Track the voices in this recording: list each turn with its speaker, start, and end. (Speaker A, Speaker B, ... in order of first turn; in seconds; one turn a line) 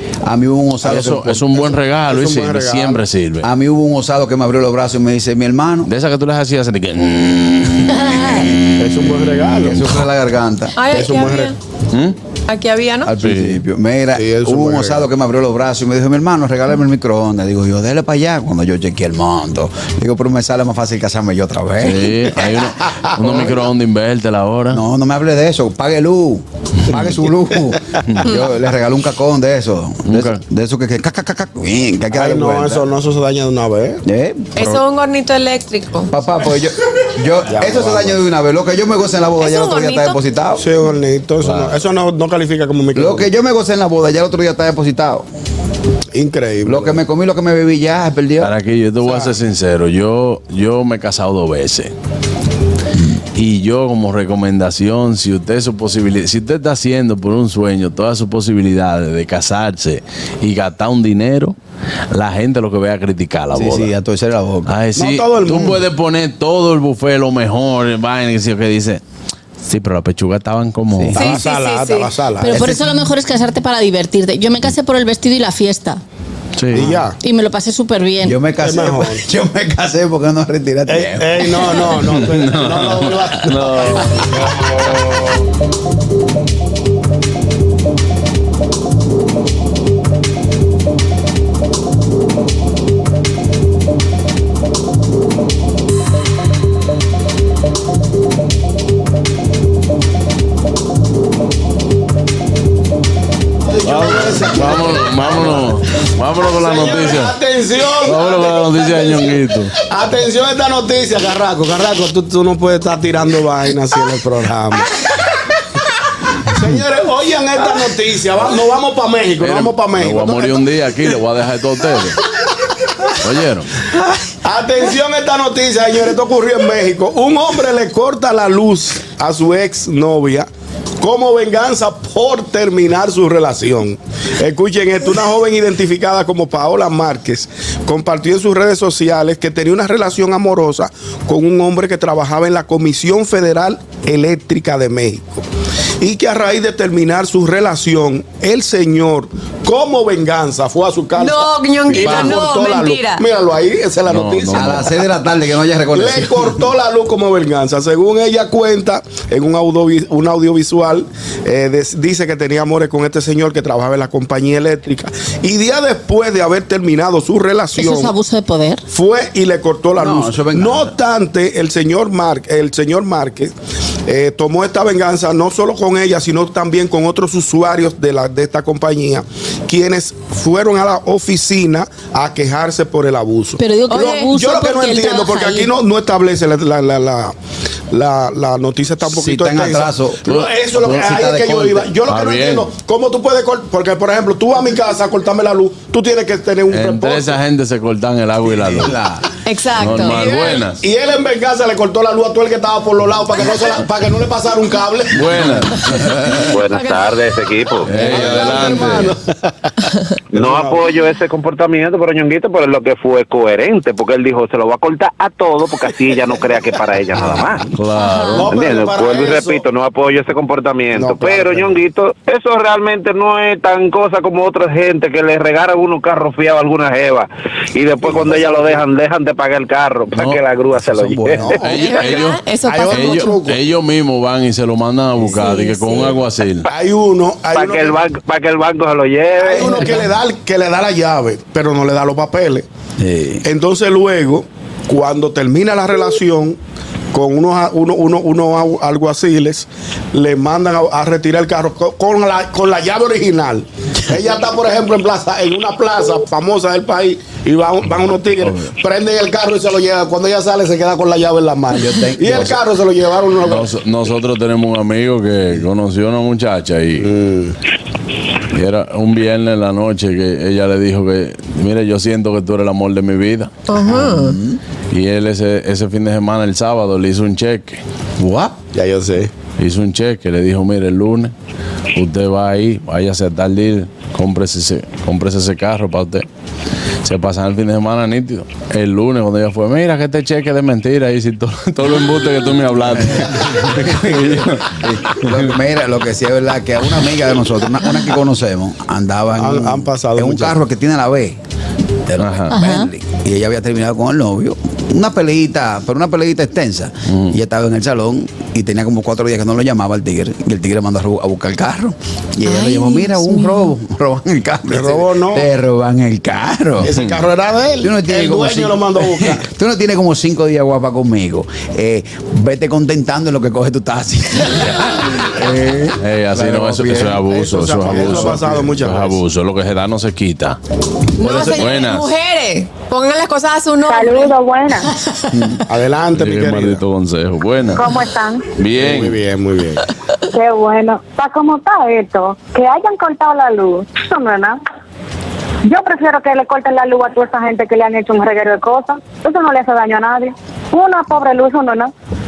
Speaker A: 0.2-1.2
Speaker B: 0.8-3.5
Speaker C: 0.8-3.0
Speaker A: 3.4-5.9
Speaker B: 5.9-8.7
Speaker D: 7.9-8.5
Speaker C: 8.8-9.9
Speaker A: 9.6-10.8
Speaker E: 10.8-11.6
Speaker C: 10.9-11.5
Speaker E: 12.5-13.1
Speaker A: 13.1-22.3
Speaker B: 13.2-13.6
Speaker C: 14.1-15.1
Speaker B: 21.8-24.8
Speaker A: 24.7-32.9
Speaker B: 30.1-30.4
Speaker C: 32.1-34.0
Speaker A: 34.0-34.8
Speaker E: 34.6-36.1
Speaker A: 36.1-40.6
Speaker C: 37.5-38.2
Speaker E: 39.4-40.2
Speaker C: 40.6-43.3
Speaker B: 41.4-41.8
Speaker A: 43.0-45.3
Speaker C: 46.1-47.0
Speaker A: 46.6-48.5
Speaker B: 48.4-51.9
Speaker C: 49.0-49.3
Speaker B: 53.4-61.5
Speaker B: 62.1-63.9
Speaker A: 63.5-64.7
Speaker B: 64.7-69.0
Speaker C: 65.0-65.8
Speaker B: 69.6-71.2
Speaker A: 70.9-71.2
Speaker C: 71.1-72.8
Speaker E: 71.1-72.1
Speaker D: 72.4-76.0
Speaker A: 72.5-72.8
Speaker B: 76.6-77.0
Speaker C: 76.7-77.2
Speaker D: 77.2-78.4
Speaker A: 78.2-81.9
Speaker C: 78.6-79.2
Speaker C: 80.9-84.5
Speaker B: 82.2-84.2
Speaker C: 103.7-105.7
Speaker B: 103.8-107.4
Speaker C: 106.4-115.0
Speaker B: 108.0-109.7
Speaker C: 116.5-120.7
Speaker B: 119.4-122.2
Speaker B: 123.2-123.7
Speaker C: 124.4-130.5
Speaker C: 131.0-145.4
Speaker C: 146.0-154.9
Speaker E: 151.2-153.3
Speaker A: 151.9-152.4
Speaker B: 154.1-154.9
Speaker A: 154.5-156.6
Speaker C: 155.9-168.1
Speaker D: 167.8-168.8
Speaker C: 168.9-173.5
Speaker A: 170.0-170.9
Speaker C: 174.1-187.3
Speaker D: 183.6-185.7
Speaker E: 183.9-184.3
Speaker C: 187.9-197.4
Speaker A: 189.0-191.9
Speaker B: 192.1-192.7
Speaker B: 196.7-199.0
Speaker A: 198.5-199.3
Speaker E: 199.5-200.5
Speaker B: 199.8-200.8
Speaker C: 200.2-205.6
Speaker B: 205.1-206.5
Speaker F: 206.5-208.2
Speaker E: 206.7-207.0
Speaker B: 207.8-209.1
Speaker C: 207.9-209.2
Speaker F: 210.3-217.7
Speaker C: 210.4-210.8
Speaker B: 217.8-218.5
Speaker C: 218.3-219.6
Speaker F: 218.4-231.6
Speaker C: 220.9-221.7
Speaker C: 228.1-228.8
Speaker B: 230.1-230.4
Speaker A: 230.9-231.6
Speaker C: 231.1-233.6
Speaker B: 231.5-236.7
Speaker E: 231.7-233.4
Speaker A: 235.2-235.7
Speaker E: 235.5-235.9
Speaker C: 236.7-238.0
Speaker F: 237.5-239.9
Speaker C: 239.4-242.7
Speaker A: 243.0-243.4
Speaker C: 243.4-246.6
Speaker C: 247.1-263.7
Speaker A: 261.7-262.6
Speaker B: 263.4-267.1
Speaker C: 267.0-267.6
Speaker B: 268.5-273.5
Speaker E: 273.7-274.4
Speaker A: 273.8-274.6
Speaker B: 274.9-277.8
Speaker A: 278.2-278.5
Speaker C: 278.7-279.3
Speaker B: 279.6-281.3
Speaker B: 281.9-286.3
Speaker B: 287.0-295.4
Speaker A: 293.0-301.4
Speaker C: 299.4-300.6
Speaker A: 302.1-316.9
Speaker B: 302.2-302.5
Speaker D: 302.5-302.9
Speaker B: 307.1-307.4
Speaker E: 312.4-313.7
Speaker C: 314.7-315.5
Speaker C: 316.8-319.4
Speaker A: 317.8-327.2
Speaker B: 324.6-325.0
Speaker B: 326.0-330.6
Speaker C: 327.2-329.2
Speaker A: 327.9-328.5
Speaker E: 331.2-334.4
Speaker B: 331.2-332.1
Speaker G: 333.9-334.9
Speaker C: 335.7-336.8
Speaker B: 336.1-337.9
Speaker G: 337.7-338.4
Speaker B: 338.6-339.2
Speaker C: 338.8-339.9
Speaker G: 340.3-344.6
Speaker G: 345.7-351.9